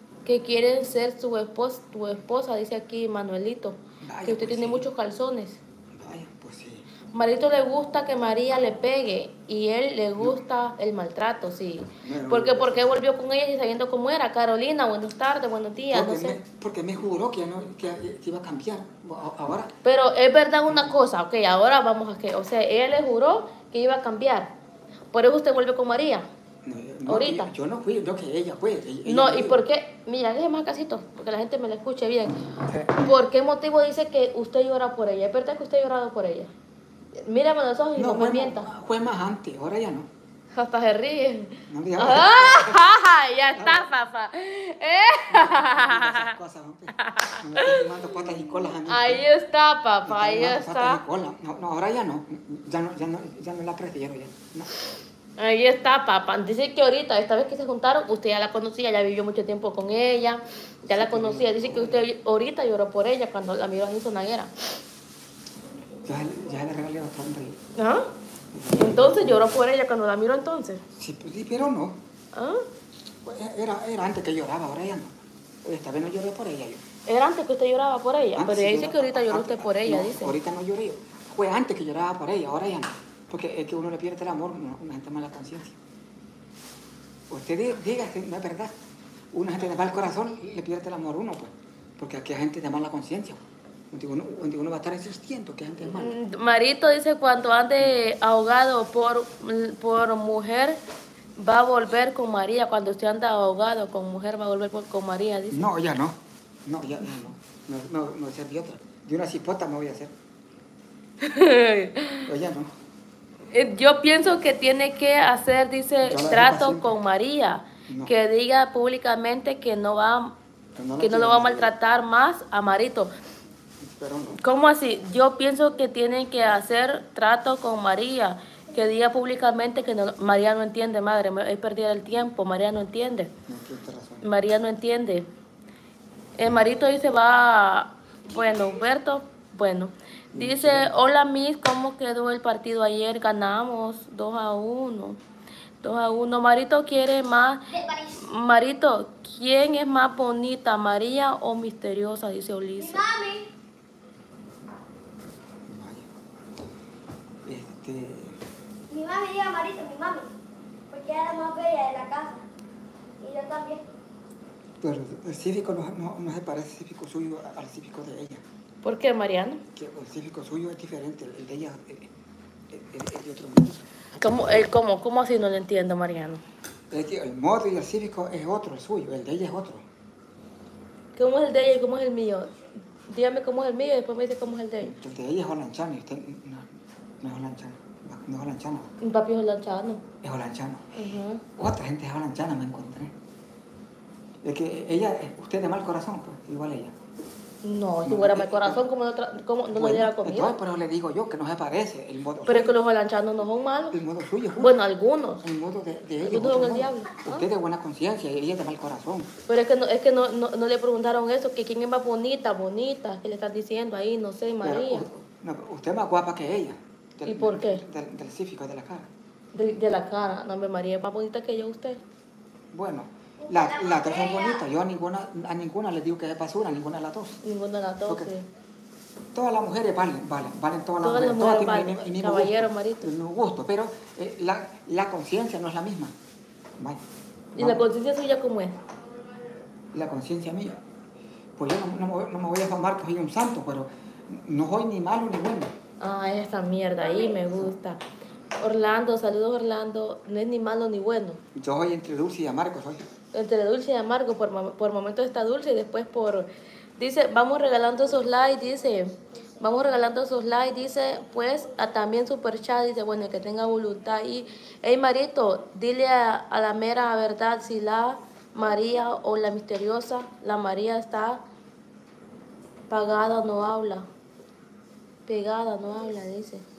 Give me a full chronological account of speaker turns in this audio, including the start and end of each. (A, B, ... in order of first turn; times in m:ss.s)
0:00.3-0:05.6 A
0:04.0-0:04.9 B
0:05.9-0:06.9 B
0:07.1-0:16.4 A
0:12.0-0:13.0 B
0:15.9-0:19.7 B
0:19.8-0:24.5 A
0:25.1-0:26.3 A
0:26.6-0:29.6 B
0:27.1-0:27.5 A
0:29.0-0:36.5 A
0:32.5-0:33.0 B
0:37.2-0:38.7 A
0:38.0-0:40.1 B
0:40.6-0:46.4 A
0:41.7-0:42.9 B
0:43.5-0:43.9 B
0:45.3-0:49.2 B
0:47.0-0:47.9 A
0:48.9-0:51.0 A
0:50.0-0:54.7 B
0:55.4-1:04.5 A
1:01.0-1:02.0 B
1:06.0-1:07.6 B
1:07.8-1:08.1 A
1:08.5-1:09.6 B
1:08.8-1:10.8 A
1:11.0-1:12.0 B
1:12.3-1:12.7 A
1:13.2-1:16.9 B
1:17.1-1:20.4 A
1:18.4-1:25.8 B
1:27.3-1:28.8 B
1:29.3-1:36.2 B
1:35.9-1:40.8 A
1:41.4-1:45.7 A
1:45.5-1:50.2 B
1:51.2-1:52.3 A
1:52.3-1:52.7 B
1:53.5-2:00.4 A
1:56.0-1:56.9 B
1:57.9-1:58.1 B
2:00.8-2:01.7 B
2:01.0-2:03.1 A
2:03.8-2:04.4 B
2:04.4-2:13.3 A
2:13.5-2:14.3 B
2:14.2-2:15.3 A
2:16.4-2:25.2 A
2:20.3-2:21.0 B
2:25.8-2:27.7 A
2:27.7-2:28.2 C
2:28.2-2:33.0 A
2:32.8-2:33.5 C
2:35.7-2:36.1 B
2:37.5-2:38.4 B
2:38.9-2:40.3 C
2:40.9-2:42.4 C
2:43.2-2:43.8 C
2:44.8-2:48.4 B
2:48.8-2:49.6 A
2:49.8-2:52.1 B
2:52.7-2:53.9 B
2:54.2-2:56.4 A
2:56.9-2:59.9 B
3:01.2-3:02.6 A
3:03.1-3:04.9 A
3:04.8-3:08.9 B
3:09.0-3:10.0 A
3:10.2-3:13.2 B
3:11.0-3:11.4 A
3:14.4-3:17.0 B
3:17.6-3:20.5 A
3:18.0-3:18.8 B
3:19.7-3:22.8 B
3:22.4-3:24.0 A
3:23.9-3:24.8 B
3:24.6-3:25.4 A
3:25.4-3:29.3 B
3:26.2-3:27.4 A
3:29.5-3:35.0 A
3:34.6-3:39.1 B
3:37.3-3:37.8 A
3:39.5-3:42.0 A
3:42.7-3:47.4 B
3:43.4-3:44.7 C
3:47.4-3:48.5 A
3:49.3-3:56.2 B
3:51.0-3:53.1 A
3:57.6-3:57.9 B
3:57.6-3:58.8 A
3:59.9-4:00.8 B
4:01.6-4:05.8 B
4:06.0-4:08.0 A
4:07.0-4:07.4 C
4:08.6-4:11.4 A
4:11.6-4:13.1 B
4:13.3-4:31.4 A
4:32.9-4:34.1 A
4:35.3-4:36.6 A